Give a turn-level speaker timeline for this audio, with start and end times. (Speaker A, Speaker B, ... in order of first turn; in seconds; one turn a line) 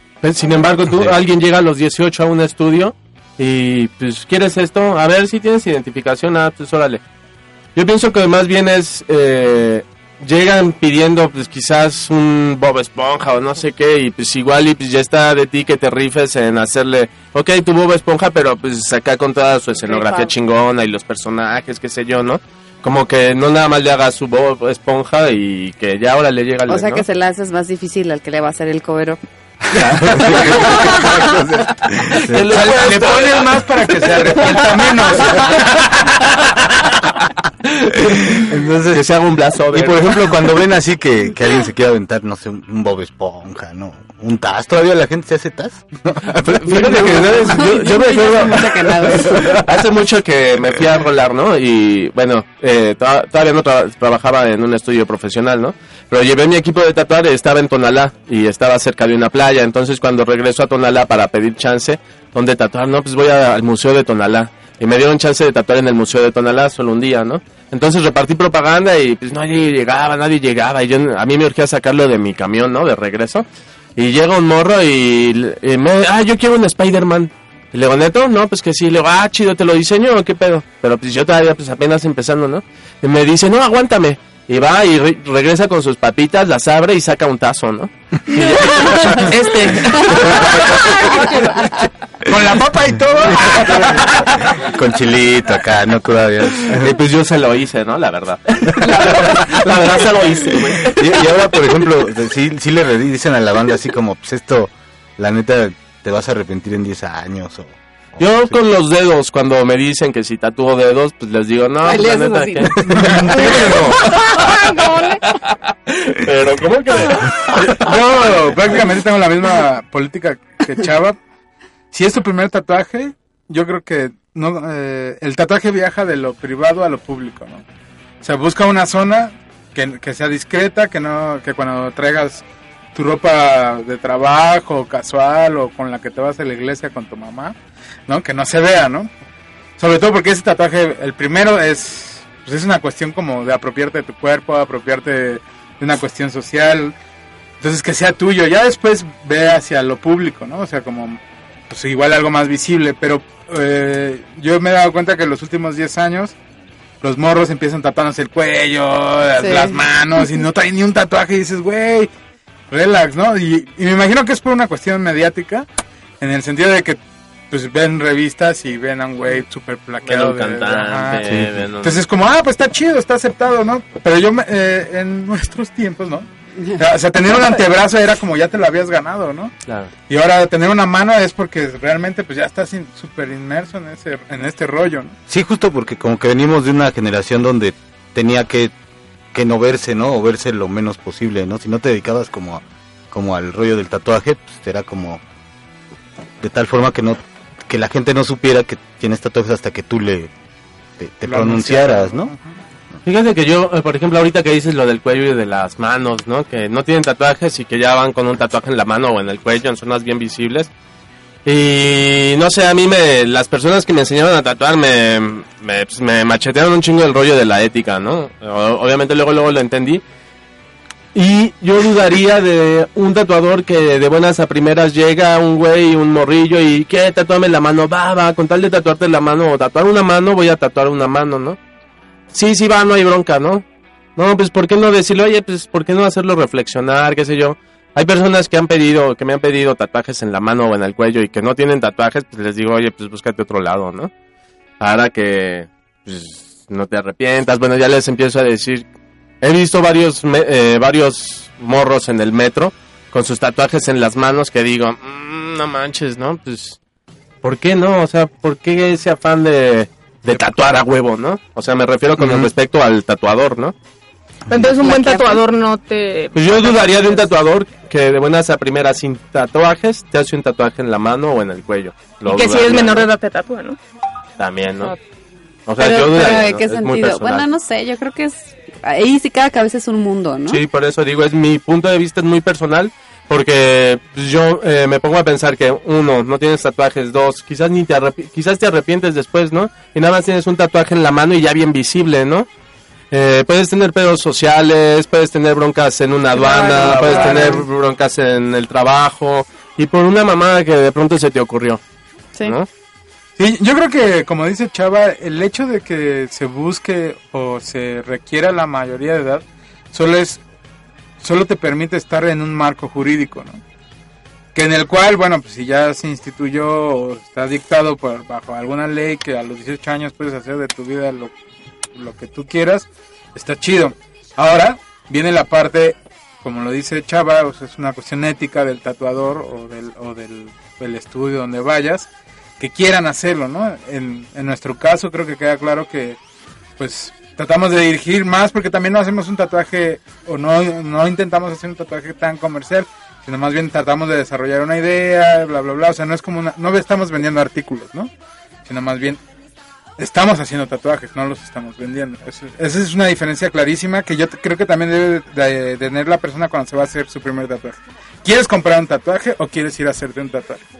Speaker A: 0.2-7.0
Speaker B: 0.9-1.1
Speaker A: 7.7-27.0
Speaker C: 19.8-20.3
Speaker D: 26.7-29.2
Speaker A: 29.7-31.1
Speaker B: 30.0-32.9
Speaker A: 32.1-35.5
Speaker E: 32.5-36.5
Speaker A: 37.7-40.3
Speaker B: 38.0-39.1
Speaker B: 39.7-48.5
Speaker E: 46.6-48.7
Speaker A: 46.9-48.4
Speaker D: 47.3-49.6
Speaker A: 49.4-90.5
Speaker D: 88.7-89.1
Speaker E: 89.1-91.6
Speaker B: 90.0-90.9
Speaker E: 92.2-94.6
Speaker B: 93.5-97.0
Speaker A: 96.6-101.3
Speaker B: 98.8-99.2
Speaker B: 100.9-108.6
Speaker A: 108.2-114.5
Speaker D: 111.8-112.9
Speaker E: 112.8-114.0
Speaker B: 112.9-113.9
Speaker C: 113.3-115.2
Speaker A: 115.3-117.9
Speaker E: 117.6-121.2
Speaker E: 121.9-127.6
Speaker E: 128.2-137.6
Speaker E: 138.1-139.1
Speaker E: 139.8-146.9
Speaker E: 147.6-156.3
Speaker E: 157.0-162.1
Speaker D: 159.4-159.8
Speaker E: 162.7-165.7
Speaker E: 166.2-167.0
Speaker E: 167.5-179.5
Speaker A: 170.0-172.0
Speaker E: 180.1-185.2
Speaker B: 185.3-188.7
Speaker B: 189.3-195.2
Speaker B: 196.4-200.3
Speaker B: 201.0-202.3
Speaker E: 201.2-202.5
Speaker A: 203.0-210.7
Speaker A: 211.4-220.0
Speaker A: 221.1-231.6
Speaker A: 232.3-233.6
Speaker A: 234.2-244.1
Speaker A: 244.8-248.8
Speaker A: 249.4-256.8
Speaker A: 257.4-263.7
Speaker B: 262.2-262.5
Speaker C: 264.5-267.3
Speaker D: 264.6-265.4
Speaker A: 266.3-273.1
Speaker C: 272.2-273.8
Speaker A: 274.4-274.9
Speaker A: 275.7-277.4
Speaker D: 275.8-280.6
Speaker A: 280.5-292.5
Speaker A: 293.1-301.8
Speaker D: 296.3-297.6
Speaker E: 303.4-310.4
Speaker E: 311.2-313.6
Speaker E: 314.5-321.3
Speaker E: 321.9-336.2
Speaker E: 336.8-348.1
Speaker E: 348.6-349.2
Speaker E: 350.0-360.6